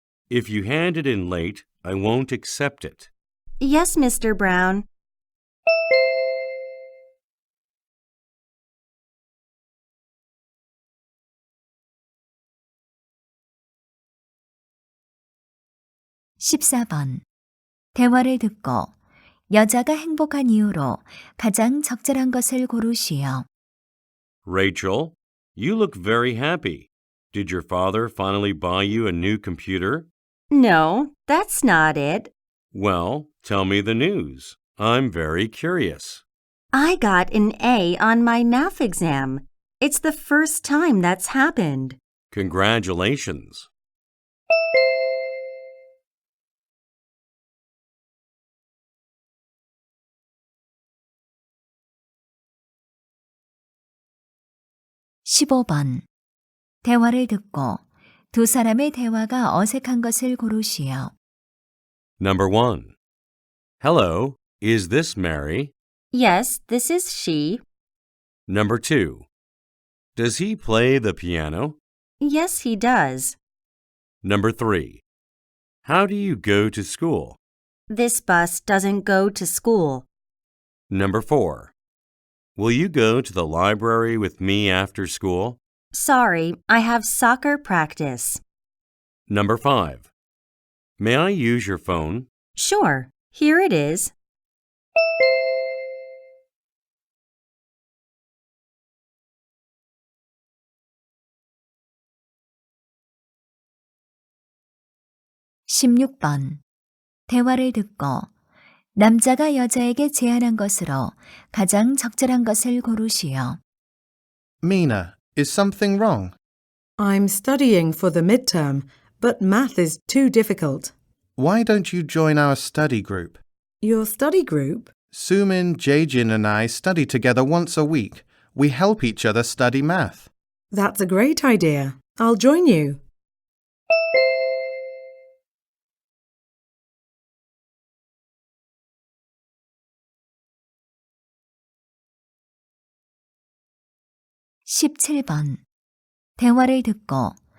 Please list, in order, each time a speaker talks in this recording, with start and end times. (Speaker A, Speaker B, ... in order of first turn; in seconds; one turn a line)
Speaker A: 0.3-3.1
Speaker B: 3.6-4.9
Speaker C: 16.4-17.2
Speaker C: 17.9-18.9
Speaker C: 19.5-23.5
Speaker A: 24.4-30.1
Speaker B: 30.5-32.3
Speaker A: 32.7-36.2
Speaker B: 36.7-42.0
Speaker A: 42.3-43.7
Speaker C: 55.2-56.0
Speaker C: 56.8-61.1
Speaker A: 62.2-63.0
Speaker A: 63.8-65.7
Speaker B: 66.1-67.6
Speaker A: 68.5-69.3
Speaker A: 70.2-71.8
Speaker B: 72.2-73.4
Speaker A: 74.2-75.0
Speaker A: 75.8-77.4
Speaker B: 77.9-80.1
Speaker A: 80.9-81.7
Speaker A: 82.6-85.6
Speaker B: 85.9-88.4
Speaker A: 89.3-90.1
Speaker A: 91.0-92.3
Speaker B: 92.6-94.1
Speaker C: 105.7-106.6
Speaker C: 107.3-108.3
Speaker C: 109.0-113.6
Speaker D: 114.6-116.3
Speaker E: 117.0-120.9
Speaker D: 121.4-123.4
Speaker E: 123.8-124.9
Speaker D: 125.1-130.3
Speaker E: 130.7-133.0
Speaker C: 144.7-145.6
Speaker C: 146.4-147.4